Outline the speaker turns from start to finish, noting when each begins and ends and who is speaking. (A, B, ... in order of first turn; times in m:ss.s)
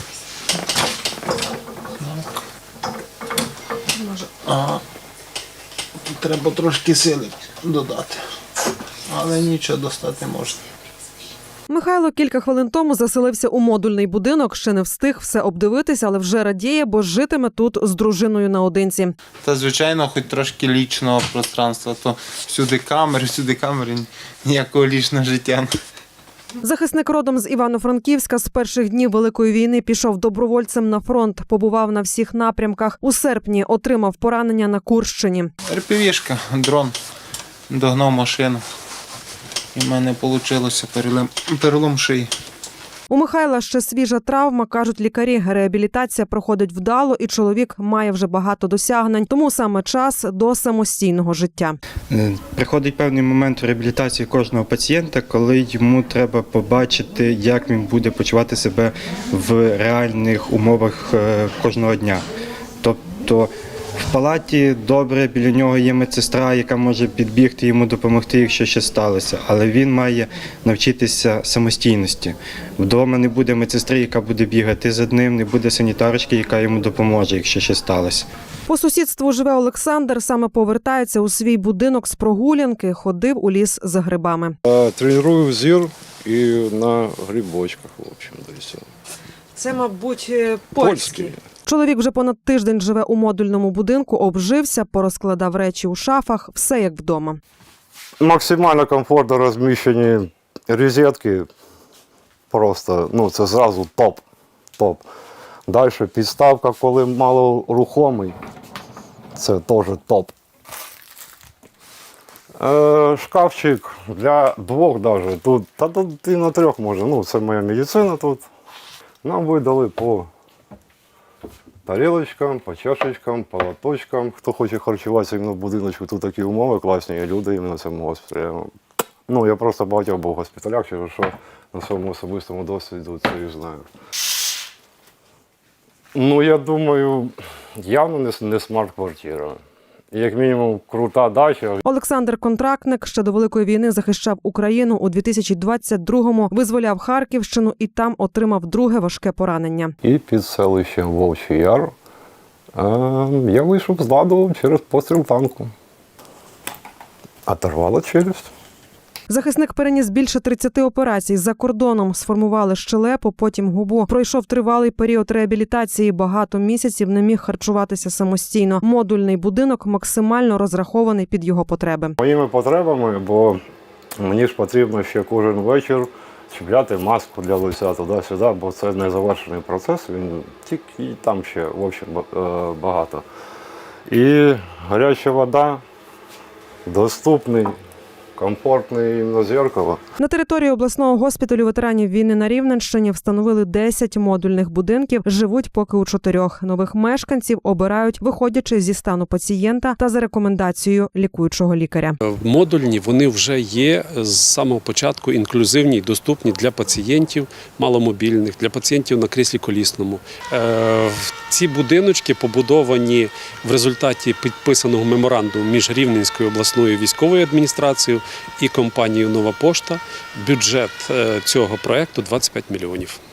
0:02.0-0:02.3 A
0:04.0-0:04.3 B
0:04.4-0:04.8 A
0:06.0-0:08.2 A
0:09.1-0:10.6 A
0:11.7-0:19.2 B
0:19.4-0:25.8 A
0:26.6-0:35.5 B
0:35.6-0:37.0 A
0:37.7-0:38.6 A
0:39.7-0:42.3 A
0:43.1-0:51.8 B
0:52.1-1:02.2 C
1:02.8-1:03.5 C
1:04.0-1:18.2 C
1:18.6-1:24.5 B
1:24.6-1:28.8 D
1:29.6-1:31.0 B
1:30.8-1:31.4 D
1:31.6-1:37.4 B
1:38.2-1:41.5 D
1:42.5-1:44.2 D
1:44.8-1:45.0 D
1:45.7-1:48.4 D
1:49.3-1:50.3 D
1:52.6-1:58.4 D
1:59.2-2:00.3 D
2:01.8-2:08.7 D
2:09.3-2:13.8 D
2:16.1-2:19.6 D
2:20.1-2:21.8 D
2:21.8-2:29.9 B
2:30.0-2:31.9 D
2:32.7-2:35.7 D
2:37.5-2:38.5 D
2:39.3-2:52.1 B
2:52.2-2:53.6 D
2:54.2-3:03.2 D
3:04.1-3:05.8 D
3:06.8-3:07.7 D
3:08.4-3:10.0 D
3:10.2-3:22.2 B
3:22.2-3:43.2 E